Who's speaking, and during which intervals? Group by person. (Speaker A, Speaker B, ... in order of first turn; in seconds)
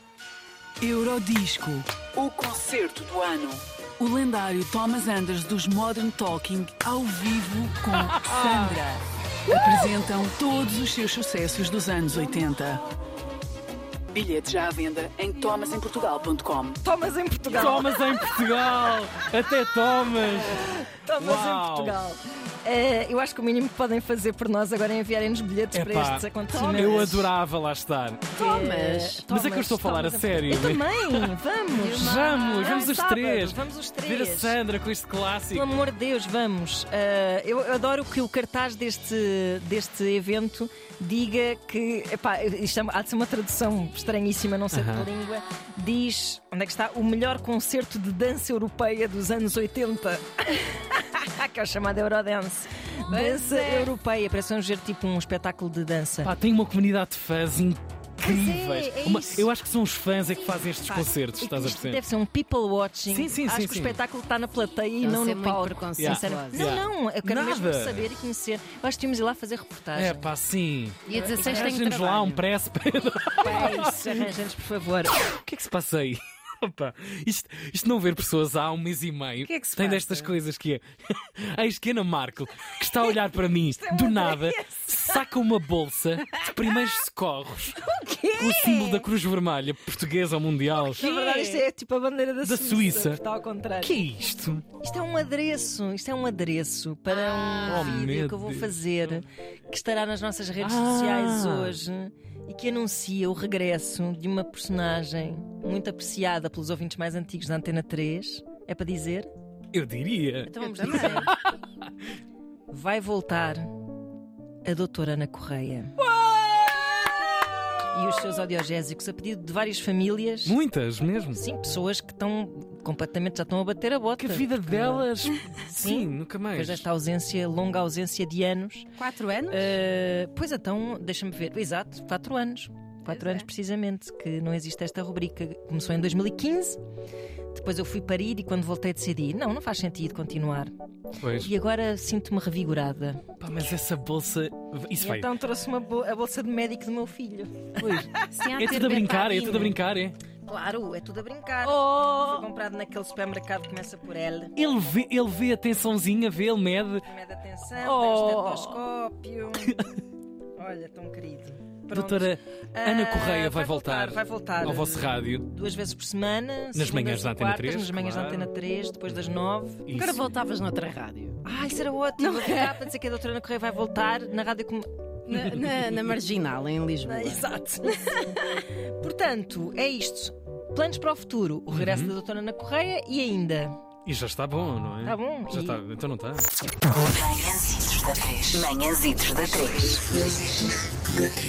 Speaker A: 0.8-12.8, 14.1-16.8, 187.0-187.4
Speaker B: 8.1-8.8, 17.5-22.0, 25.7-28.3, 29.3-35.7, 44.7-45.1, 56.2-62.0, 63.1-64.0, 66.0-68.1, 70.0-74.3, 75.3-87.8, 88.3-91.0, 92.4-93.2, 93.8-94.7, 97.7-99.1, 100.6-101.8, 109.7-111.9, 120.5-121.4, 124.2-126.8, 141.2-141.5, 143.4-145.3, 147.8-150.2, 154.6-157.1, 157.8-158.7, 159.6-160.0, 161.9-165.5, 166.7-168.5, 169.9-170.2, 181.7-182.2, 184.1-186.5
Speaker C: 16.8-18.0, 20.9-27.3, 28.4-34.6, 35.5-56.3, 58.2-59.5, 60.8-70.3, 73.4-75.2, 83.8-85.0, 87.9-89.0, 90.9-94.0, 94.8-109.3, 110.6-111.3, 112.7-113.7, 114.6-116.0, 117.9-120.6, 121.3-125.1, 125.7-128.9, 129.5-136.8, 137.5-140.7, 141.3-143.2, 145.0-148.2, 150.4-154.6, 157.1-159.8, 160.6-169.8, 171.4-174.9, 177.1-183.8, 185.1-185.8
Speaker D: 28.4-29.2, 31.8-32.9, 53.1-53.9, 65.0-66.7, 71.1-72.4, 79.5-80.3, 91.0-91.6, 97.1-98.1, 110.5-111.3, 129.0-129.7, 133.1-133.4, 148.2-149.8, 151.6-152.4, 169.9-171.4, 172.2-172.9, 175.3-177.5
Speaker E: 187.1-190.1